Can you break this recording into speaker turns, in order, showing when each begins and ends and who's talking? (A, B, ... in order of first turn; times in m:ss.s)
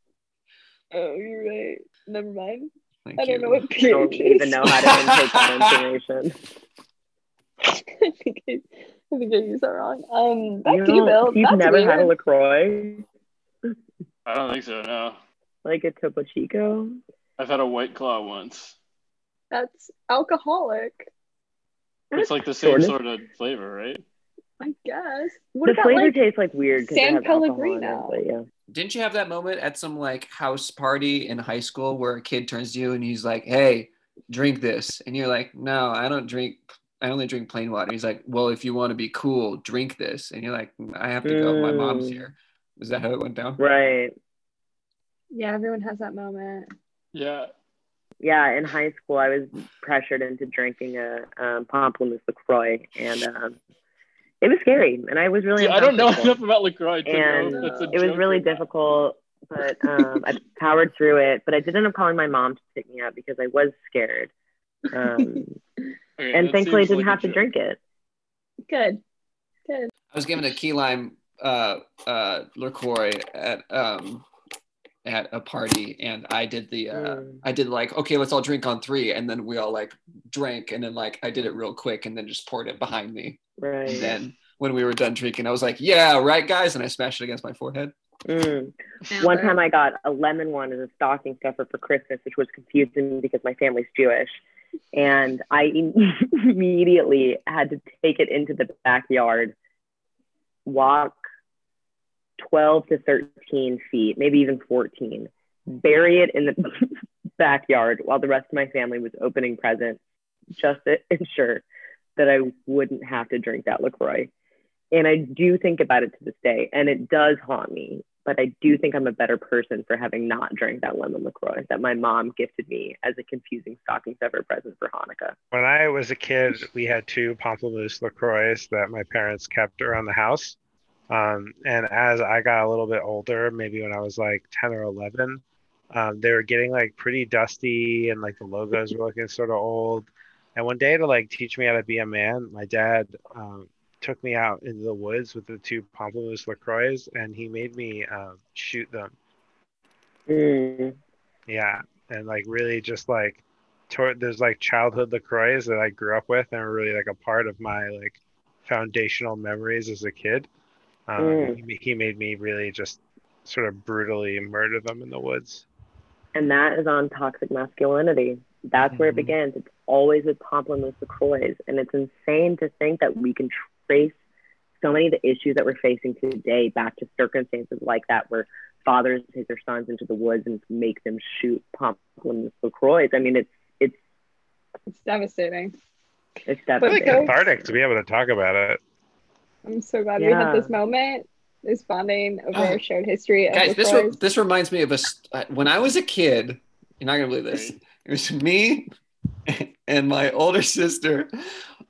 0:00.9-0:04.7 A
0:03.0-0:03.7 B
0:03.8-0:06.4 C
0:04.6-0:05.6 B
0:07.7-0:12.1 A
0:10.6-0:13.0 C
0:14.3-0:15.2 D
0:15.6-0:17.0 C
0:17.4-0:18.8 D
0:19.5-0:21.1 A
0:22.1-0:24.0 D
0:22.1-0:23.0 C
0:24.6-0:26.2 A
0:25.6-0:28.4 C
0:26.8-0:28.2 A
0:28.7-0:43.6 B
0:41.2-0:42.2 C
0:43.6-0:44.1 C
0:45.3-0:46.7 A
0:47.1-0:47.5 D
0:48.2-0:53.6 C
0:54.4-0:56.4 C
0:55.6-0:58.6 D
0:57.1-1:04.3 C
0:57.5-0:57.9 A
1:04.9-1:05.6 C
1:05.0-1:05.4 A
1:06.2-1:07.5 D
1:06.3-1:07.8 C
1:08.7-1:09.0 A
1:09.7-1:09.9 A
1:10.1-1:14.3 B
1:15.0-1:27.9 B
1:16.9-1:17.4 C
1:23.6-1:24.2 C
1:28.3-1:34.4 C
1:29.1-1:29.6 A
1:34.9-1:39.6 C
1:40.7-1:41.2 C
1:42.4-1:50.0 C
1:50.6-1:51.6 C
1:52.2-1:54.3 C
1:54.9-2:05.4 C
2:05.5-2:10.6 E
2:11.1-2:15.4 E
2:15.9-2:29.1 E
2:30.3-2:31.0 C
2:31.5-2:40.5 E
2:41.1-2:45.7 E
2:41.2-2:41.6 C
2:46.4-2:54.2 C
2:48.9-2:49.3 E
2:54.8-3:04.0 C
3:04.9-3:05.7 A
3:06.5-3:07.3 C
3:06.8-3:07.5 A
3:06.8-3:08.8 E
3:09.6-3:14.2 A
3:10.2-3:10.7 C
3:12.5-3:12.8 B
3:13.5-3:18.9 B
3:17.5-3:17.8 D
3:19.5-3:21.3 B